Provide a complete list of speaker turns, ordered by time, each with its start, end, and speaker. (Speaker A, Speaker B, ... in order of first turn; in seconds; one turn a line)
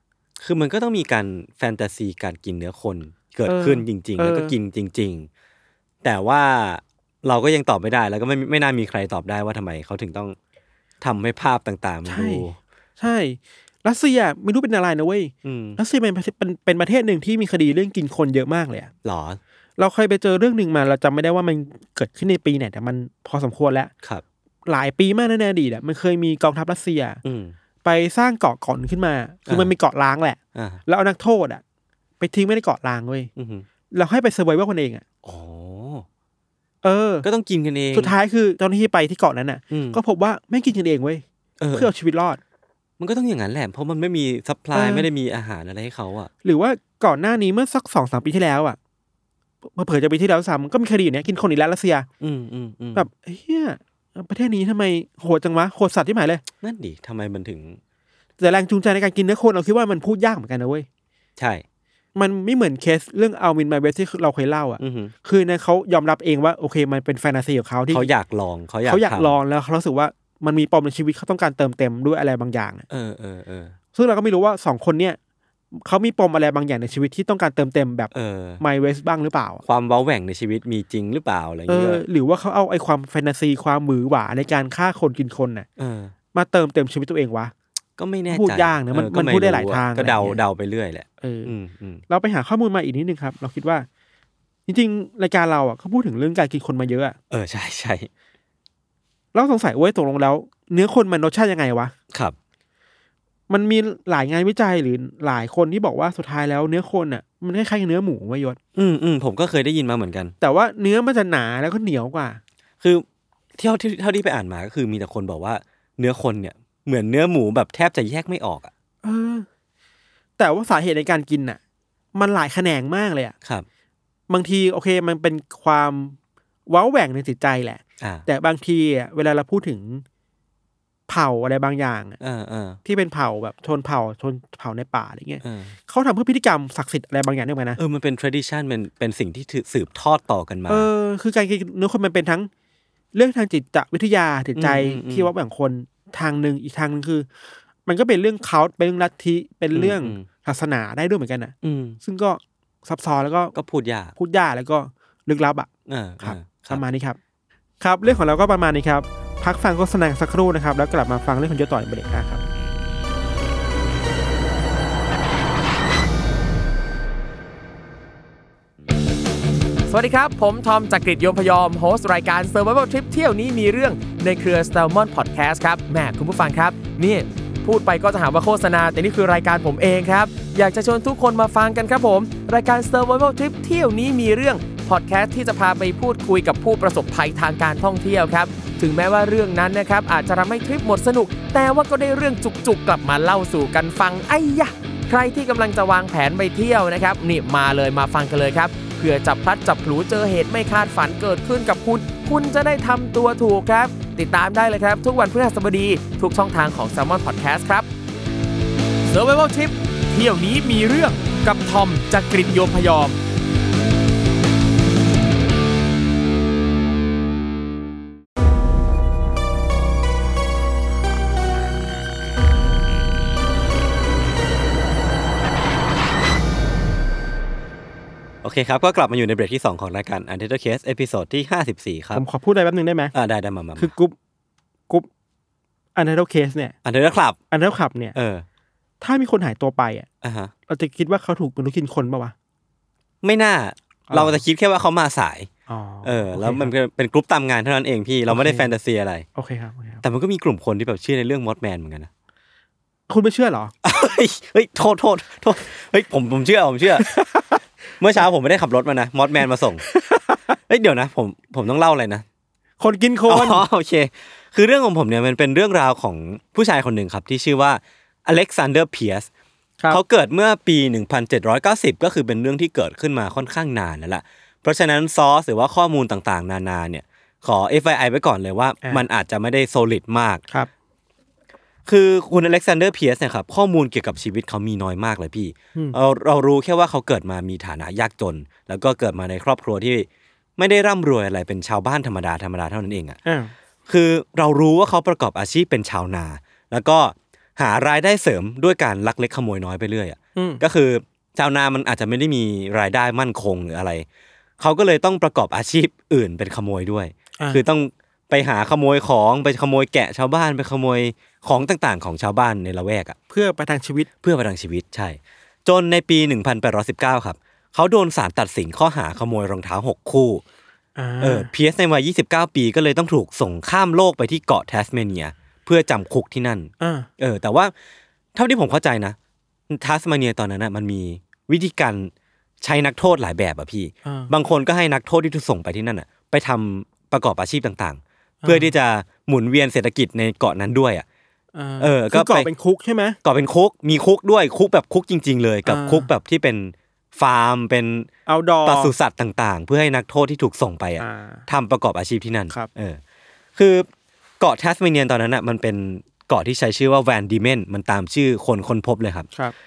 Speaker A: 0.4-5.3
Speaker B: 3.5-4.5
Speaker A: 6.0-10.4
Speaker A: 11.0-12.6
Speaker B: 12.1-12.4
Speaker B: 13.0-18.9
Speaker A: 15.4-15.8
Speaker A: 19.0-19.4
Speaker B: 19.8-23.9
Speaker B: 24.7-27.2
Speaker A: 27.2-27.6
Speaker B: 27.8-31.6
Speaker A: 30.6-30.8
Speaker B: 32.2-33.3
Speaker A: 33.4-33.7
Speaker B: 33.9-35.0
Speaker A: 35.2-36.1
Speaker B: 36.8-37.3
Speaker A: 37.2-38.1
Speaker B: 37.9-42.4
Speaker A: 39.7-40.0
Speaker A: 41.6-41.9
Speaker A: 43.0-46.3
Speaker B: 44.7-45.1
Speaker B: 46.4-48.8
Speaker B: 49.7-52.1
Speaker A: 52.2-53.1
Speaker B: 53.0-56.4
Speaker A: 56.6-57.8
Speaker B: 58.4-60.9
Speaker A: 61.4-61.6
Speaker B: 62.1-68.1
Speaker A: 64.8-65.1
Speaker A: 67.9-69.4
Speaker B: 68.9-72.9
Speaker A: 72.9-73.8
Speaker B: 73.9-75.2
Speaker B: 75.8-79.6
Speaker A: 78.1-78.6
Speaker A: 79.6-82.0
Speaker B: 81.7-85.7
Speaker A: 85.8-86.1
Speaker B: 86.3-87.5
Speaker A: 88.0-92.0
Speaker B: 88.3-90.4
Speaker B: 91.2-91.5
Speaker B: 92.1-93.9
Speaker B: 94.7-97.2
Speaker A: 97.3-98.1
Speaker B: 99.3-101.9
Speaker B: 103.5-108.6
Speaker A: 108.8-110.3
Speaker B: 110.4-112.4
Speaker A: 113.6-118.7
Speaker B: 119.0-119.5
Speaker B: 120.4-121.6
Speaker B: 122.2-123.3
Speaker B: 124.3-126.2
Speaker B: 126.7-130.0
Speaker A: 128.0-128.3
Speaker B: 131.1-132.2
Speaker A: 132.2-132.8
Speaker B: 132.8-137.8
Speaker A: 135.4-135.8
Speaker A: 137.8-140.9
Speaker B: 140.7-142.5
Speaker B: 143.1-147.3
Speaker A: 144.6-145.3
Speaker B: 147.9-153.6
Speaker A: 149.7-150.3
Speaker A: 151.6-152.0
Speaker A: 153.6-154.2
Speaker B: 154.2-155.7
Speaker A: 155.9-156.8
Speaker B: 156.2-157.2
Speaker B: 157.8-162.4
Speaker C: 169.9-207.9
Speaker C: 209.1-213.2
Speaker A: 228.4-232.2
Speaker B: 232.1-233.1
Speaker A: 233.1-233.9
Speaker B: 233.8-234.2
Speaker B: 235.9-236.8
Speaker A: 236.8-237.4
Speaker B: 237.5-238.2
Speaker A: 238.1-238.4
Speaker B: 239.0-240.1
Speaker A: 240.2-240.5
Speaker B: 240.7-242.3
Speaker A: 243.2-245.5
Speaker B: 244.1-244.4
Speaker B: 245.7-246.7
Speaker A: 246.0-249.3
Speaker B: 248.3-248.7
Speaker B: 249.3-250.0
Speaker A: 250.0-252.1
Speaker B: 253.1-253.7
Speaker A: 253.8-257.2
Speaker B: 257.1-257.4
Speaker A: 258.0-259.8
Speaker B: 259.9-260.5
Speaker A: 260.7-262.2
Speaker B: 262.8-263.6
Speaker A: 263.3-269.3
Speaker A: 269.9-280.4
Speaker A: 281.9-293.2
Speaker B: 293.3-293.5
Speaker A: 293.9-304.1
Speaker B: 300.4-300.6
Speaker A: 304.6-313.2
Speaker B: 313.3-314.1
Speaker A: 314.2-320.4
Speaker B: 321.0-321.5
Speaker A: 321.2-327.7
Speaker B: 326.8-327.1
Speaker A: 328.4-329.2
Speaker A: 329.7-341.1
Speaker B: 334.1-334.3
Speaker B: 338.4-338.7
Speaker B: 341.6-343.2
Speaker A: 341.8-342.5
Speaker A: 343.2-348.1
Speaker B: 345.7-346.1
Speaker B: 348.3-348.9
Speaker A: 348.6-353.0
Speaker B: 351.0-351.4
Speaker A: 353.6-353.9
Speaker A: 354.4-359.3